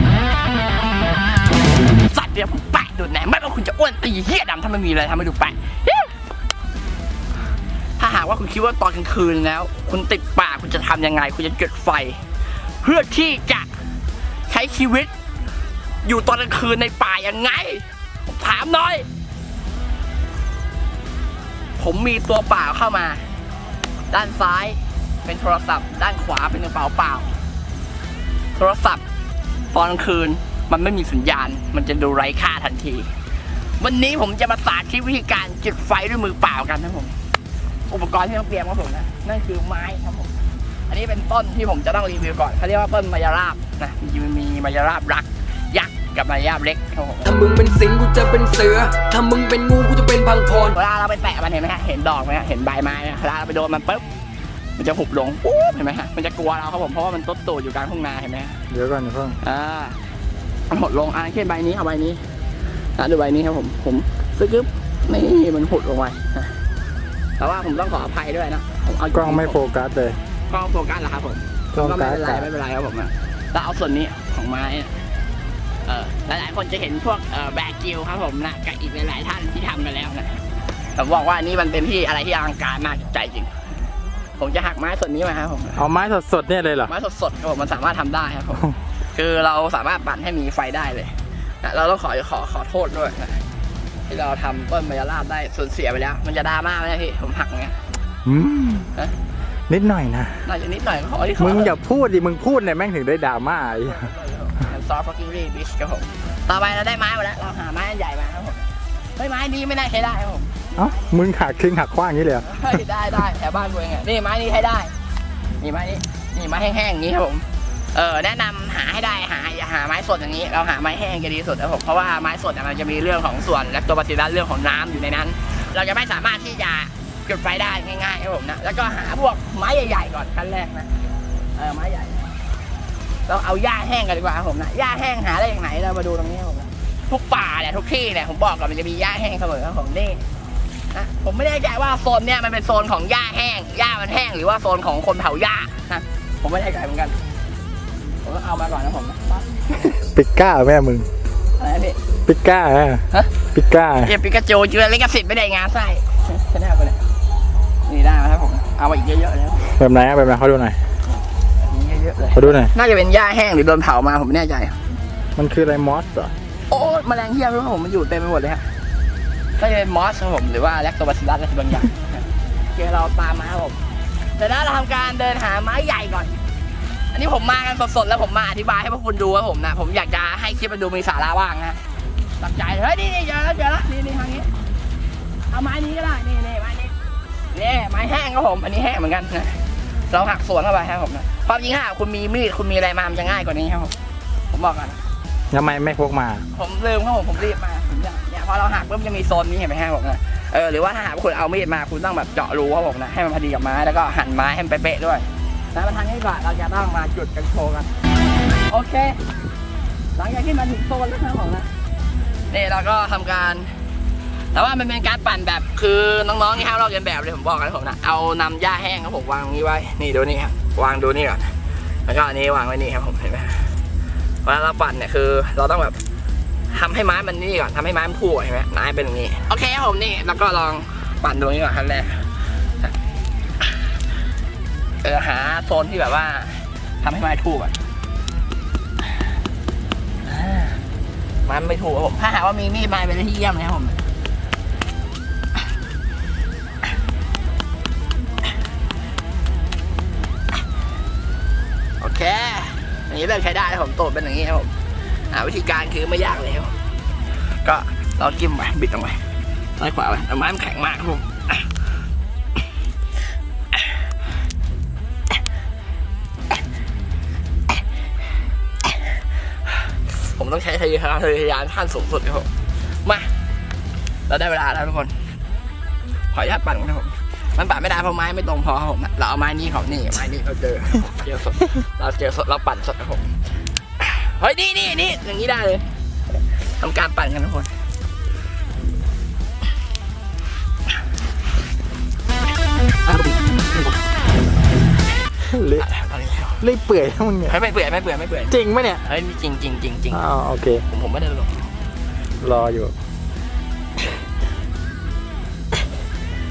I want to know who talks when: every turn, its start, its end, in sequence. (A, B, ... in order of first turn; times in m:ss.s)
0:02.1-0:06.1 A
0:08.0-0:12.2 A
0:12.8-0:13.7 A
0:14.5-0:15.1 A
0:16.0-0:19.0 A
0:21.8-0:23.3 A
0:24.1-0:27.3 A
0:28.5-0:29.0 A
0:29.7-0:33.2 A
0:33.8-0:37.2 A
0:37.9-0:47.4 A
0:47.2-0:50.8 B
0:50.7-0:54.0 A
0:54.8-0:58.6 A
0:58.7-0:59.4 C
0:59.4-1:00.0 A
1:00.7-1:02.2 A
1:03.0-1:06.6 A
1:07.4-1:09.6 A
1:09.1-1:10.2 C
1:10.5-1:15.0 A
1:11.8-1:12.5 C
1:15.8-1:20.4 A
1:20.9-1:23.8 A
1:24.4-1:25.8 A
1:25.8-1:26.9 C
1:26.8-1:33.4 A
1:34.1-1:37.8 A
1:38.2-1:38.9 C
1:39.7-1:40.4 C
1:40.4-1:41.7 A
1:41.4-1:44.1 C
1:43.8-1:50.6 A
1:50.8-1:52.8 C
1:52.4-1:54.9 A
1:55.6-2:11.0 A
2:11.5-2:12.3 A
2:13.3-2:20.2 A
2:20.9-2:27.2 A
2:28.2-2:29.9 A
2:29.9-2:31.1 C
2:31.6-2:32.0 A
2:32.2-2:34.1 C
2:34.0-2:37.0 A
2:37.8-2:39.8 A
2:39.8-2:40.8 C
2:41.6-2:44.8 A
2:42.3-2:42.7 C
2:45.4-2:46.3 C
2:46.7-2:48.7 A
2:49.6-2:53.8 A
2:54.4-2:56.3 A
2:57.1-3:01.8 A
3:02.4-3:04.5 A
3:05.5-3:06.9 A
3:07.5-3:13.9 A
3:14.5-3:15.0 A
3:15.5-3:16.4 C
3:16.5-3:27.9 A
3:28.7-3:29.2 A
3:30.2-3:31.7 A
3:32.5-3:33.8 A
3:34.5-3:41.5 A
3:42.1-3:43.8 A
3:44.4-3:46.0 A
3:46.7-3:52.9 A
3:55.0-3:57.8 A
4:00.2-4:00.8 A
4:01.4-4:04.0 A
4:12.0-4:16.7 A
4:17.6-4:19.2 A
4:19.8-4:21.7 A
4:30.1-4:33.3 A
4:34.3-4:35.2 A
4:36.3-4:43.3 A
4:44.0-4:45.8 A
4:46.6-4:47.7 A
4:53.1-4:53.9 A
4:55.5-4:55.9 C
4:55.8-4:56.6 A
4:56.6-4:57.6 C
4:57.5-5:00.2 A
4:58.5-4:59.0 C
5:00.1-5:00.8 C
5:00.9-5:01.7 A
5:02.4-5:02.9 C